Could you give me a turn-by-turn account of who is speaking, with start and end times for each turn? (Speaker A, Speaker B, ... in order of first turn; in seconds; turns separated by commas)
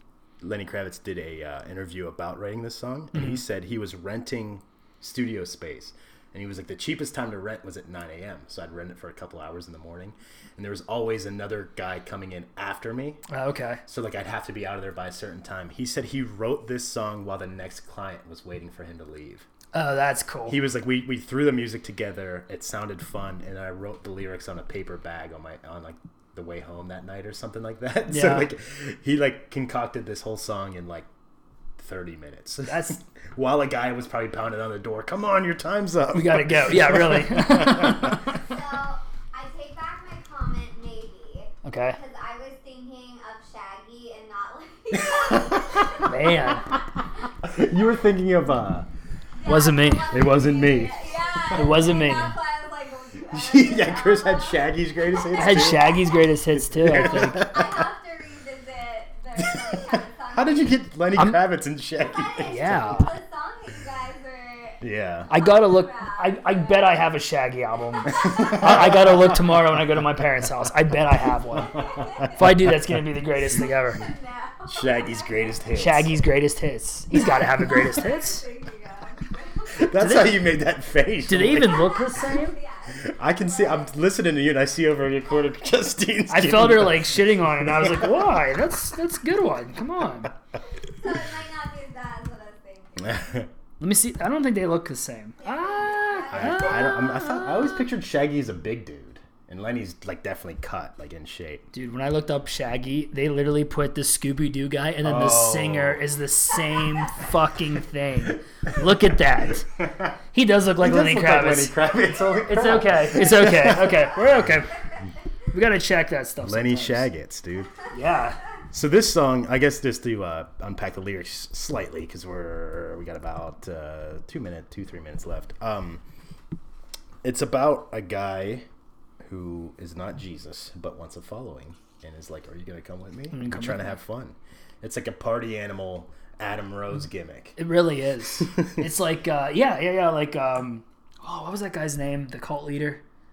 Speaker A: 0.4-13.2, Speaker B: 3.1-3.4, Speaker B: 13.3-13.8, Speaker A: 13.9-19.5, Speaker B: 19.7-20.6, Speaker A: 20.5-31.1, Speaker B: 28.1-28.5, Speaker A: 31.8-38.0, Speaker B: 32.6-33.0, Speaker B: 36.1-38.3, Speaker C: 38.0-46.1, Speaker B: 41.6-42.0, Speaker A: 45.1-46.0, Speaker B: 46.0-46.7, Speaker A: 47.4-48.9, Speaker C: 49.4-55.5, Speaker B: 49.4-50.3, Speaker A: 50.1-51.8, Speaker B: 51.5-52.4, Speaker A: 53.3-56.0, Speaker B: 55.3-57.5, Speaker A: 56.7-57.8, Speaker C: 56.8-60.8, Speaker A: 59.4-63.1, Speaker C: 62.0-67.0, Speaker B: 62.4-63.1, Speaker A: 64.8-65.3, Speaker B: 65.3-71.8, Speaker C: 68.0-68.6, Speaker A: 68.2-69.6, Speaker A: 71.5-72.8, Speaker C: 71.6-72.4, Speaker B: 72.3-74.0, Speaker C: 73.5-75.7, Speaker A: 74.7-76.1, Speaker B: 75.7-78.4, Speaker A: 77.1-77.8, Speaker C: 77.6-79.9, Speaker A: 79.7-82.2, Speaker B: 79.9-80.4, Speaker B: 81.3-82.6, Speaker C: 81.5-84.0, Speaker A: 82.9-88.3, Speaker B: 86.3-90.3, Speaker C: 90.6-93.2, Speaker A: 93.1-93.5, Speaker B: 93.8-97.8, Speaker C: 95.4-97.1, Speaker A: 96.3-101.7, Speaker B: 101.7-109.7, Speaker A: 105.0-106.1, Speaker A: 109.8-110.2, Speaker B: 110.3-114.8, Speaker A: 110.8-114.5, Speaker B: 115.5-117.1, Speaker A: 116.4-117.8, Speaker B: 117.9-118.4, Speaker A: 118.7-126.0, Speaker A: 127.2-128.7, Speaker A: 129.2-137.6, Speaker B: 133.3-133.9, Speaker B: 137.6-143.0